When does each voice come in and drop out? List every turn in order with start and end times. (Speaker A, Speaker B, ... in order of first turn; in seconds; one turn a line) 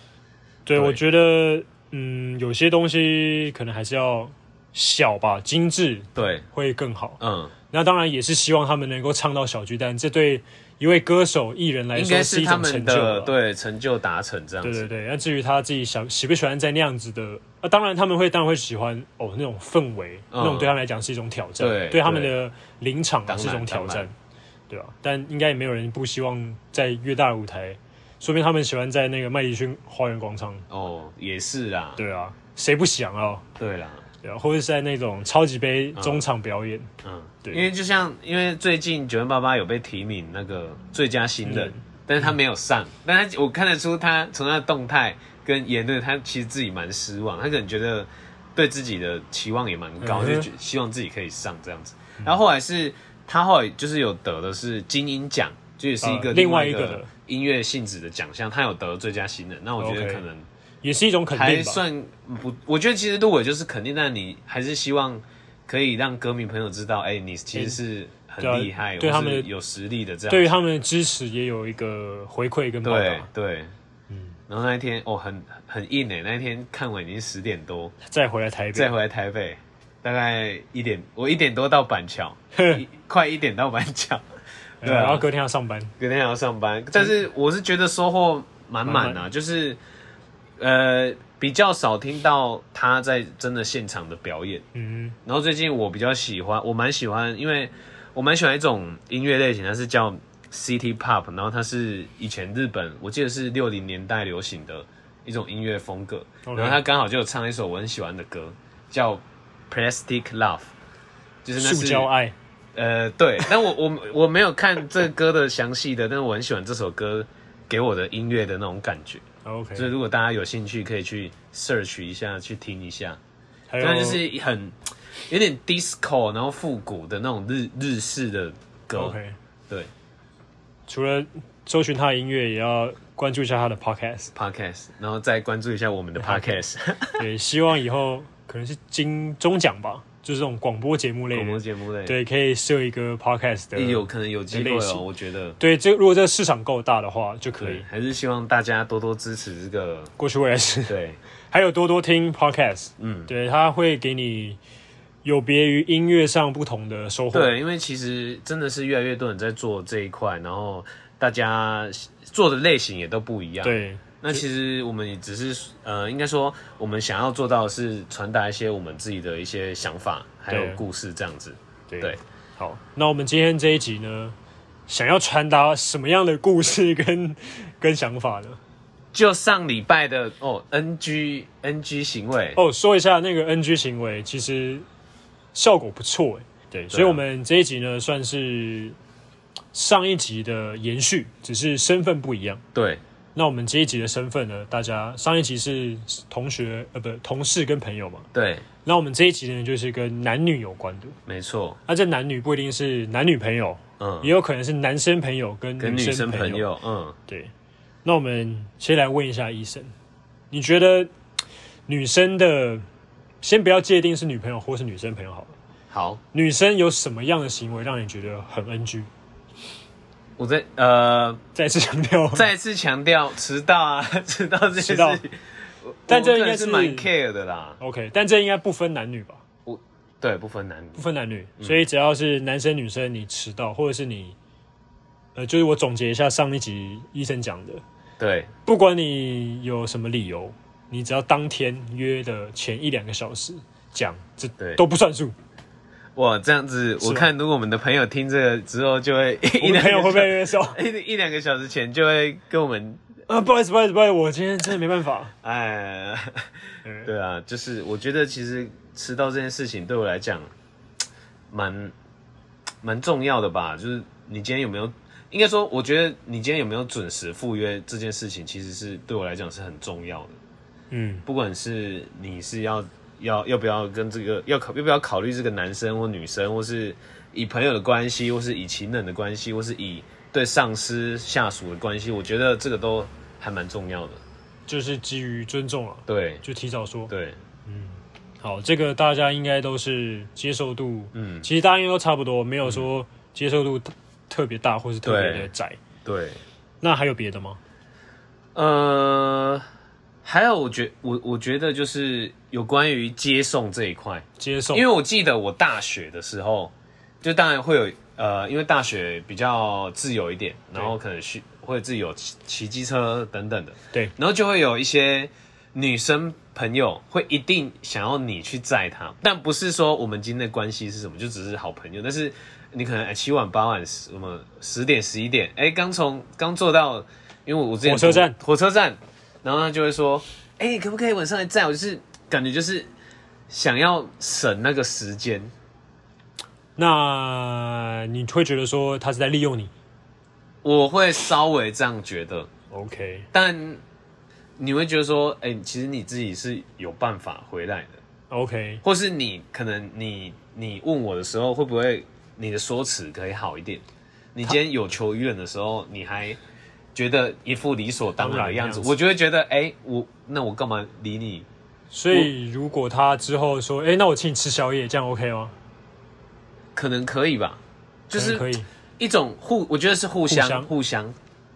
Speaker A: 0.7-7.2
Speaker B: 6.2-6.5
Speaker B: 7.2-7.5
Speaker A: 7.7-13.3
Speaker B: 11.9-14.9
Speaker A: 14.6-24.1
Speaker B: 20.3-20.7
Speaker B: 21.6-22.3
Speaker B: 23.3-24.1
Speaker A: 24.7-30.7
Speaker B: 30.7-32.0
Speaker A: 32.0-33.4
Speaker B: 33.6-34.0
Speaker A: 34.2-36.9
Speaker B: 36.0-36.2
Speaker B: 37.0-60.5
Speaker A: 41.4-42.3
Speaker A: 50.0-50.5
Speaker A: 56.0-57.1
Speaker A: 59.8-60.2
Speaker A: 60.8-61.8
Speaker B: 61.3-70.5
Speaker A: 67.5-67.8
Speaker A: 68.4-69.5
Speaker A: 70.3-73.3
Speaker B: 72.8-73.7
Speaker A: 74.1-74.4
Speaker B: 74.5-77.9
Speaker A: 78.1-78.9
Speaker B: 78.7-84.2
Speaker A: 82.5-82.8
Speaker B: 84.8-85.3
Speaker A: 84.8-85.9
Speaker B: 86.0-89.8
Speaker A: 88.8-89.2
Speaker B: 90.6-94.7
Speaker A: 94.7-95.2
Speaker B: 95.2-110.7
Speaker A: 106.4-106.8
Speaker B: 111.4-112.1
Speaker A: 111.6-112.3
Speaker B: 112.7-119.2
Speaker A: 119.4-119.9
Speaker B: 119.8-123.2
Speaker A: 123.7-124.2
Speaker B: 123.8-129.2
Speaker A: 128.9-129.3
Speaker A: 130.9-134.3
Speaker B: 134.3-137.2
Speaker A: 136.2-136.6
Speaker A: 137.2-145.0
Speaker B: 141.3-142.2
Speaker B: 143.7-145.6
Speaker A: 145.6-147.8
Speaker B: 147.6-150.1
Speaker A: 150.2-150.9
Speaker B: 150.9-151.2
Speaker A: 151.5-154.6
Speaker B: 153.0-153.3
Speaker A: 155.2-157.5
Speaker B: 157.3-172.2
Speaker A: 163.6-164.4
Speaker A: 170.5-170.8
Speaker A: 171.9-174.3
Speaker A: 174.9-178.6
Speaker B: 179.1-182.6
Speaker A: 182.6-184.8
Speaker A: 185.5-188.9
Speaker B: 186.9-187.2
Speaker A: 189.7-192.6
Speaker B: 192.7-193.0
Speaker A: 193.3-198.3
Speaker B: 198.3-198.6
Speaker A: 198.8-201.2
Speaker B: 201.3-201.8
Speaker A: 201.9-206.7
Speaker B: 204.0-204.3
Speaker B: 205.8-207.2
Speaker A: 208.0-209.9
Speaker A: 210.5-211.1
Speaker A: 211.9-212.8
Speaker A: 213.4-215.5
Speaker B: 215.9-216.2
Speaker A: 216.3-219.1
Speaker B: 220.4-221.4
Speaker A: 221.5-222.5
Speaker B: 222.3-227.8
Speaker A: 224.8-225.2
Speaker A: 226.1-227.1
Speaker A: 227.8-229.4
Speaker B: 229.7-231.0
Speaker A: 230.9-234.3
Speaker B: 231.6-231.8
Speaker A: 235.3-237.8
Speaker B: 238.2-238.5
Speaker A: 238.6-245.3
Speaker B: 246.2-253.0
Speaker A: 247.0-247.3
Speaker A: 249.6-250.8
Speaker A: 253.3-255.3
Speaker B: 255.4-256.5
Speaker A: 256.8-257.1
Speaker B: 257.0-260.5
Speaker B: 261.5-261.9
Speaker B: 262.8-270.4
Speaker A: 270.9-271.2
Speaker B: 271.2-284.2
Speaker A: 284.7-287.1
Speaker B: 286.1-286.4
Speaker B: 287.1-287.4
Speaker A: 287.6-295.8
Speaker B: 291.1-291.5
Speaker B: 295.0-295.5
Speaker B: 296.0-296.4
Speaker A: 296.8-297.6
Speaker B: 298.5-299.6
Speaker B: 300.2-332.9
Speaker A: 304.4-304.8
Speaker A: 327.8-328.4
Speaker B: 333.5-335.5
Speaker A: 336.8-339.7
Speaker B: 340.6-342.5
Speaker A: 342.7-343.3
Speaker B: 343.3-343.8
Speaker B: 344.6-348.0
Speaker A: 348.3-348.8
Speaker B: 348.8-356.4
Speaker B: 356.9-361.5
Speaker A: 358.2-358.9
Speaker A: 361.9-365.5
Speaker B: 366.7-371.1
Speaker A: 368.1-368.7
Speaker A: 370.3-370.7